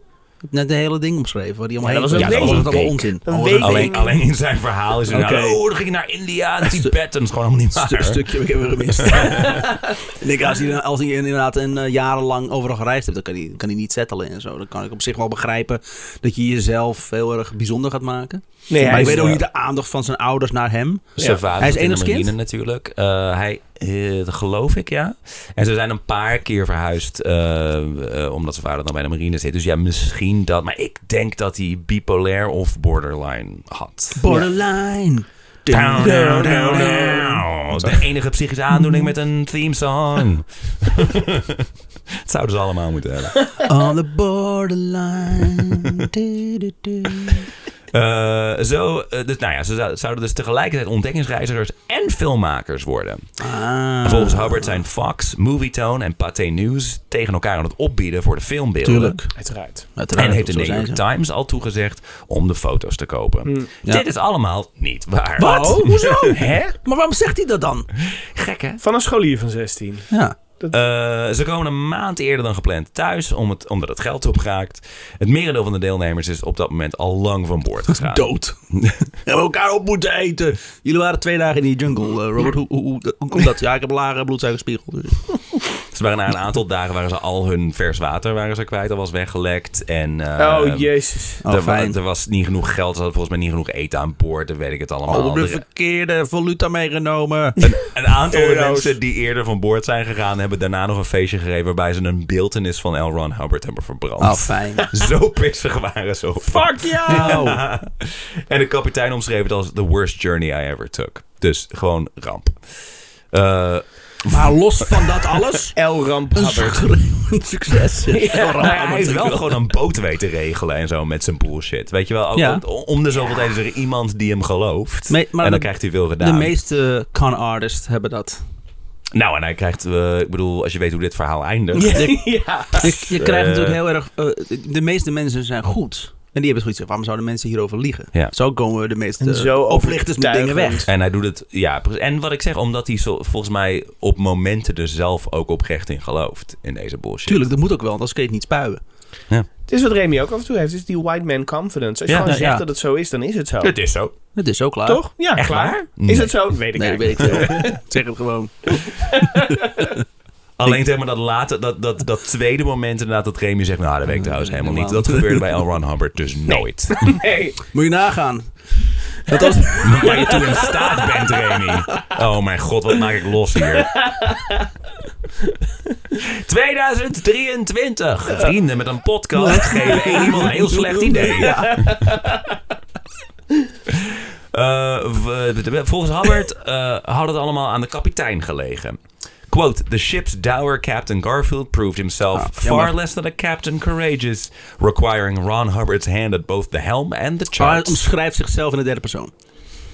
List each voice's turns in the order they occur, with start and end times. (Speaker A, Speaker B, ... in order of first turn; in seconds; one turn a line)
Speaker A: 0.5-4.1
Speaker B: 1.8-4.2
Speaker C: 2.1-8.3
Speaker A: 5.1-5.6
Speaker A: 6.6-6.9
Speaker A: 7.7-22.3
Speaker C: 9.0-9.7
Speaker B: 18.7-19.4
Speaker C: 18.8-19.4
Speaker C: 21.2-34.2
Speaker A: 34.2-38.0
Speaker C: 35.7-41.7
Speaker B: 36.0-37.3
Speaker A: 38.7-39.1
Speaker C: 42.2-43.5
Speaker A: 43.6-47.5
Speaker C: 45.8-46.1
Speaker C: 47.9-53.2
Speaker A: 53.4-54.8
Speaker C: 54.0-59.2
Speaker A: 58.8-59.3
Speaker B: 59.4-59.9
Speaker A: 60.0-61.0
Speaker C: 60.1-66.5
Speaker A: 65.4-67.9
Speaker B: 65.4-66.8
Speaker C: 68.0-68.8
Speaker B: 68.8-70.1
Speaker A: 70.1-70.4
Speaker C: 70.7-79.1
Speaker A: 77.9-78.5
Speaker A: 79.2-85.2
Speaker C: 85.9-95.6
Speaker B: 90.4-91.4
Speaker A: 91.4-92.0
Speaker A: 95.1-97.6
Speaker C: 97.6-112.6
Speaker B: 98.3-99.0
Speaker A: 104.2-104.9
Speaker B: 106.5-107.5
Speaker A: 107.1-107.6
Speaker C: 113.3-115.2
Speaker A: 114.3-115.8
Speaker B: 115.8-116.9
Speaker A: 116.3-119.4
Speaker B: 118.1-119.4
Speaker C: 118.3-126.5
Speaker A: 122.3-122.6
Speaker A: 125.1-128.4
Speaker C: 129.1-132.1
Speaker B: 131.8-133.1
Speaker A: 131.9-140.9
Speaker C: 132.8-133.8
Speaker B: 139.2-140.9
Speaker C: 140.9-147.4
Speaker A: 147.3-148.8
Speaker B: 149.7-153.7
Speaker C: 152.1-152.3
Speaker A: 152.2-152.6
Speaker C: 153.6-154.1
Speaker A: 154.3-155.0
Speaker B: 154.9-157.7
Speaker C: 155.3-156.5
Speaker A: 156.8-160.0
Speaker C: 157.3-157.8
Speaker B: 158.7-159.9
Speaker C: 160.6-167.2
Speaker A: 164.1-165.6
Speaker B: 166.5-167.6
Speaker A: 167.7-168.5
Speaker A: 169.2-170.5
Speaker B: 169.4-171.5
Speaker C: 169.8-174.1
Speaker B: 173.8-174.7
Speaker C: 176.2-182.1
Speaker A: 179.4-181.8
Speaker B: 179.7-180.5
Speaker B: 181.2-182.6
Speaker C: 183.9-189.0
Speaker C: 189.5-198.0
Speaker A: 192.3-192.9
Speaker A: 197.6-199.3